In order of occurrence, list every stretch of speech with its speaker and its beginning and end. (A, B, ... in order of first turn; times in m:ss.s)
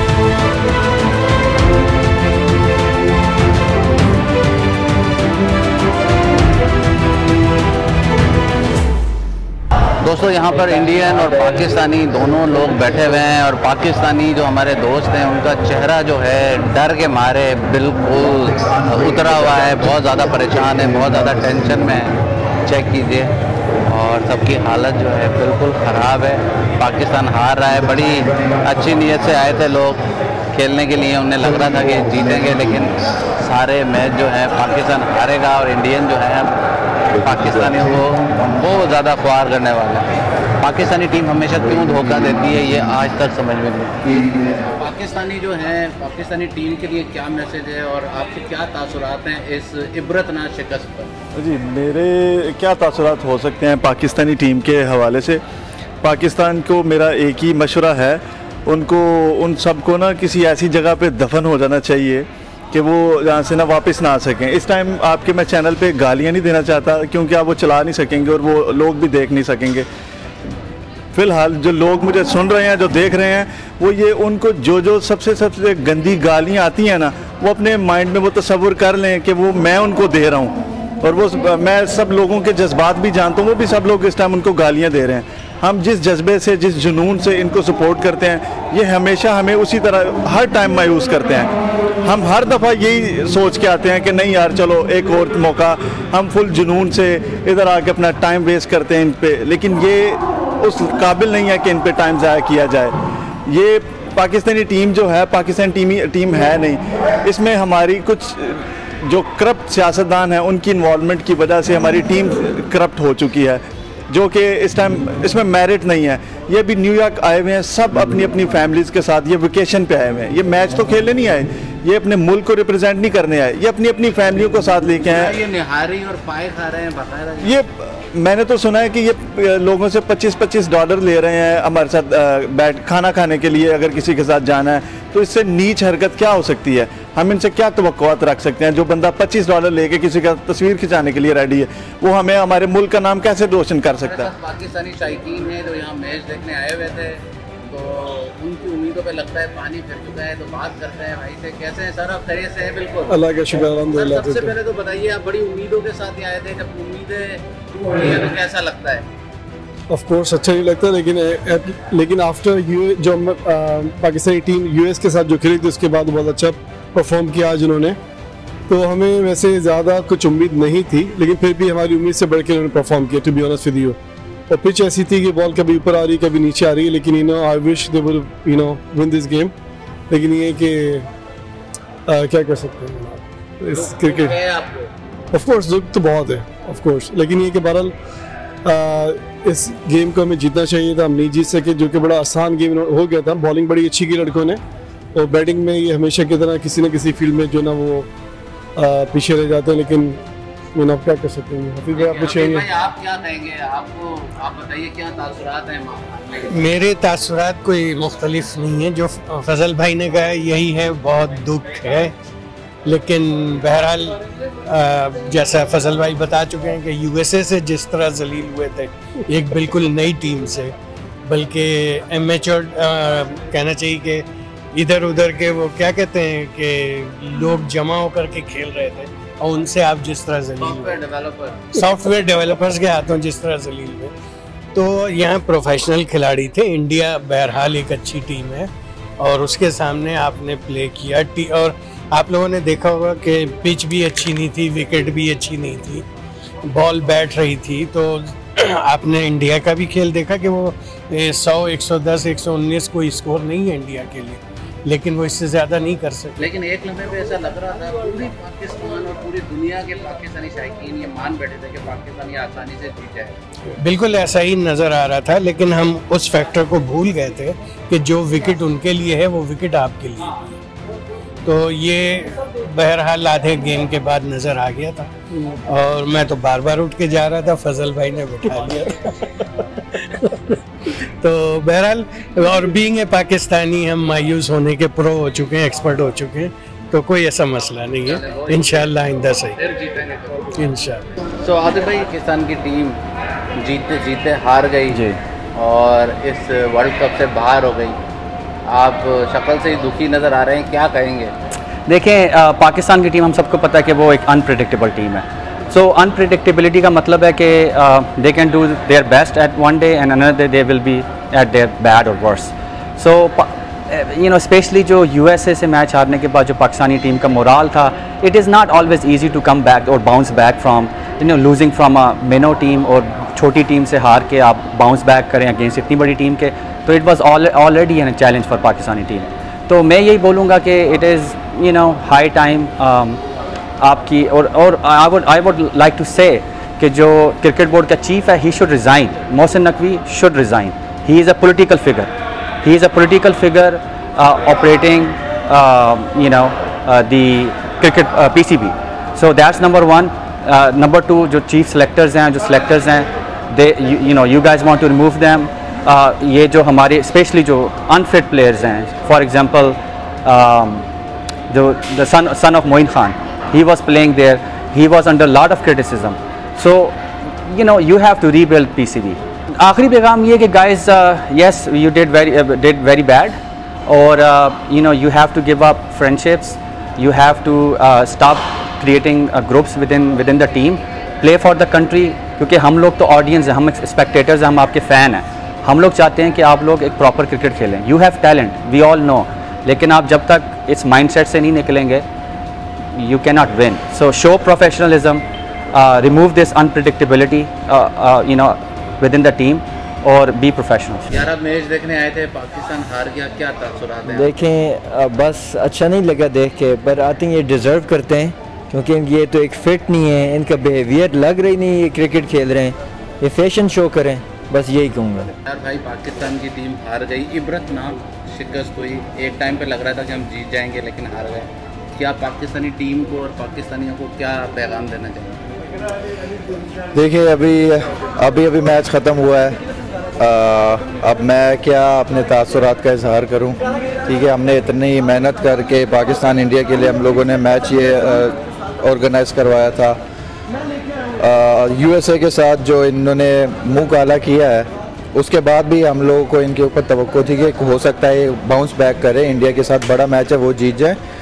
0:10.0-0:22.1 A
0:22.6-0:23.3 A
0:23.9-0:36.5 A
0:37.2-0:40.1 A
0:40.6-0:51.1 A
0:51.4-0:55.4 B
0:56.0-1:09.9 B
1:11.1-1:31.5 B
1:32.0-1:42.9 B
1:43.5-2:05.4 B
2:05.0-2:07.6 A
2:07.4-2:24.3 B
2:23.9-2:33.1 A
2:33.1-2:34.5 C
2:33.9-2:39.0 A
2:39.9-2:48.0 C
2:48.7-2:54.0 C
2:54.5-2:59.5 C
3:00.1-3:01.1 C
3:02.1-3:04.4 C
3:03.8-3:04.9 A
3:05.3-3:07.9 C
3:08.6-3:14.6 C
3:15.1-3:18.1 C
3:18.8-3:20.2 C
3:20.7-3:22.7 C
3:21.9-3:26.6 A
3:26.5-3:32.1 D
3:32.8-3:40.7 D
3:41.2-3:51.0 D
3:50.6-3:51.6 A
3:51.7-3:54.1 D
3:54.7-4:06.0 D
4:06.6-4:16.4 D
4:16.4-4:23.4 A
4:23.8-4:30.4 D
4:31.4-4:35.1 D
4:35.6-4:40.6 D
4:41.2-4:49.6 D
4:48.1-4:48.9 A
4:49.6-4:50.5 A
4:50.5-4:51.1 D
4:51.4-4:53.0 A
4:53.6-4:55.0 A
4:54.9-4:55.2 E
4:55.5-4:58.0 A
4:58.6-5:01.3 A
5:01.9-5:33.2 E
5:33.8-5:42.1 E
5:42.6-6:00.8 E
6:01.5-6:32.0 E
6:32.9-6:41.2 E
6:41.1-6:44.2 A
6:44.0-6:55.3 F
6:55.4-7:05.4 A
7:06.9-7:09.6 G
7:10.2-7:20.0 G
7:21.2-7:31.0 G